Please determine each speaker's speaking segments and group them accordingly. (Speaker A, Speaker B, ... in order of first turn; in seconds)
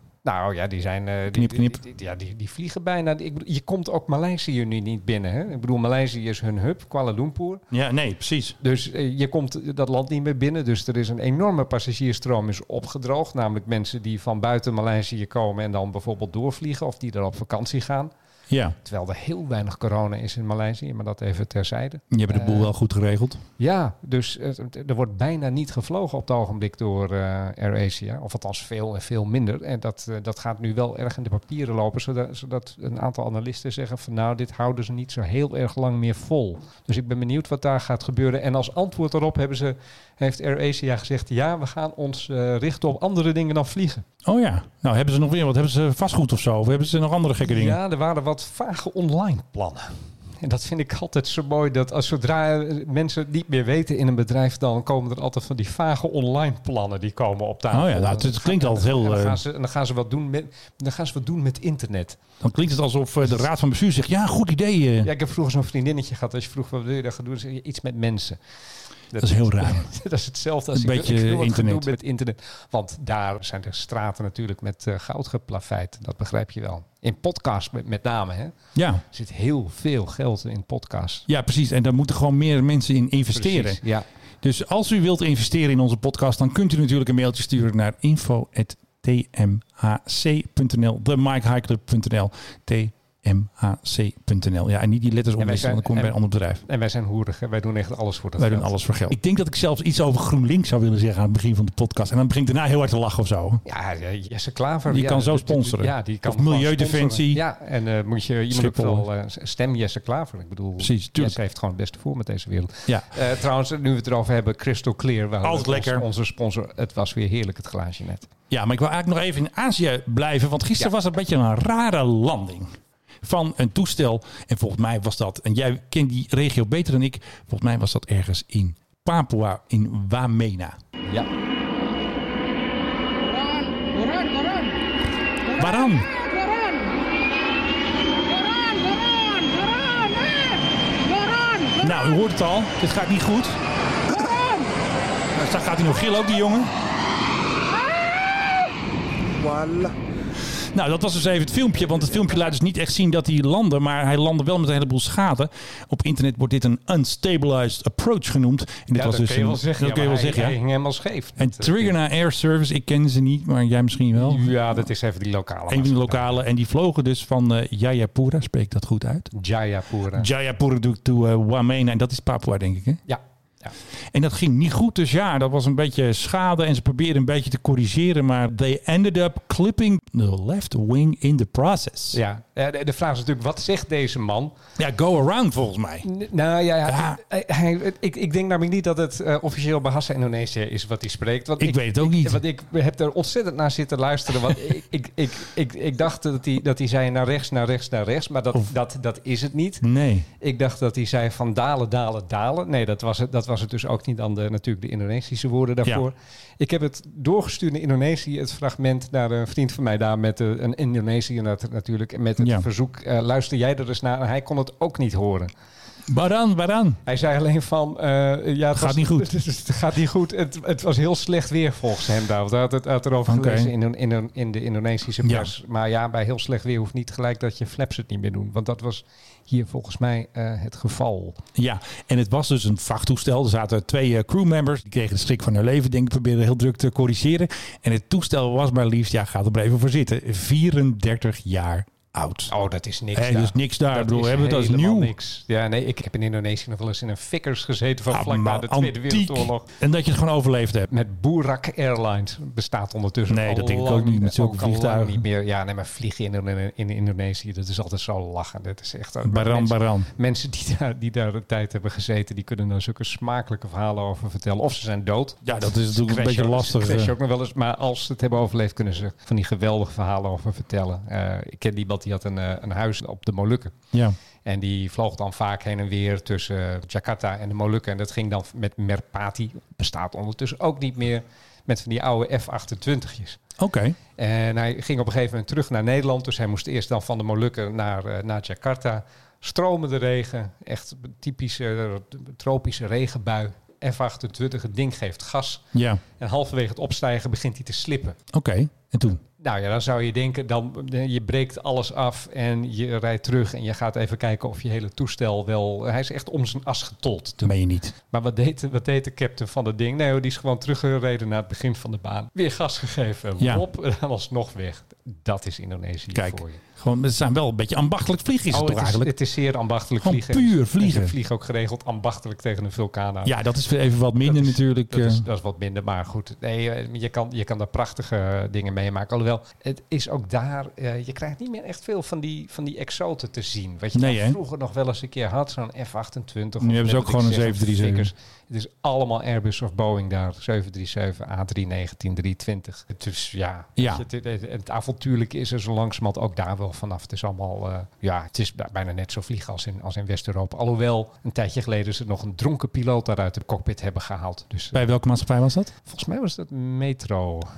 Speaker A: 0.2-7.6, 8.6-18.1, 18.8-22.7, 23.6-44.0, 47.4-62.2, 65.0-68.4, 69.1-78.5, 79.0-81.2, 83.3-84.0, 95.4-98.7, 103.6-118.3, 158.9-161.9, 164.2-166.4, 169.3-170.3, 173.1-173.7, 182.1-184.5, 186.0-199.8, 200.4-215.5, 217.1-231.4, 242.5-249.7, 250.9-273.7, 274.4-283.4, 284.2-295.6, 296.2-298.2, 299.4-307.5, 308.1-316.6, 318.5-323.3, 324.2-354.9, 355.8-357.5
Speaker B: 1.3-1.8, 7.7-8.6, 18.5-18.8, 22.1-23.4, 44.2-47.8, 57.7-59.4, 62.4-65.1, 69.2-69.9, 70.7-71.9, 78.7-79.0, 81.3-83.8, 84.4-96.6, 98.4-103.6, 104.9-107.4, 108.5-109.1, 110.8-111.4, 115.4-116.0, 118.5-130.8, 135.5-136.1, 141.8-143.6, 145.3-146.7, 150.7-160.6, 161.4-164.8, 165.7-169.3, 170.1-173.0, 174.1-182.2, 184.8-186.1, 186.8-187.2, 191.6-192.4, 199.8-200.3, 212.4-212.7, 216.1-217.0, 218.7-219.3, 223.2-223.7, 225.2-225.5, 231.5-242.5, 243.1-245.1, 248.1-250.9, 253.3-255.2, 259.2-260.1, 265.4-267.1, 283.6-283.9, 295.7-296.0, 298.3-299.2, 307.4-307.9, 313.4-313.6, 316.1-319.1, 320.0-321.1, 323.2-325.2, 333.9-334.4, 336.6-338.1, 343.8-344.0, 354.7-355.7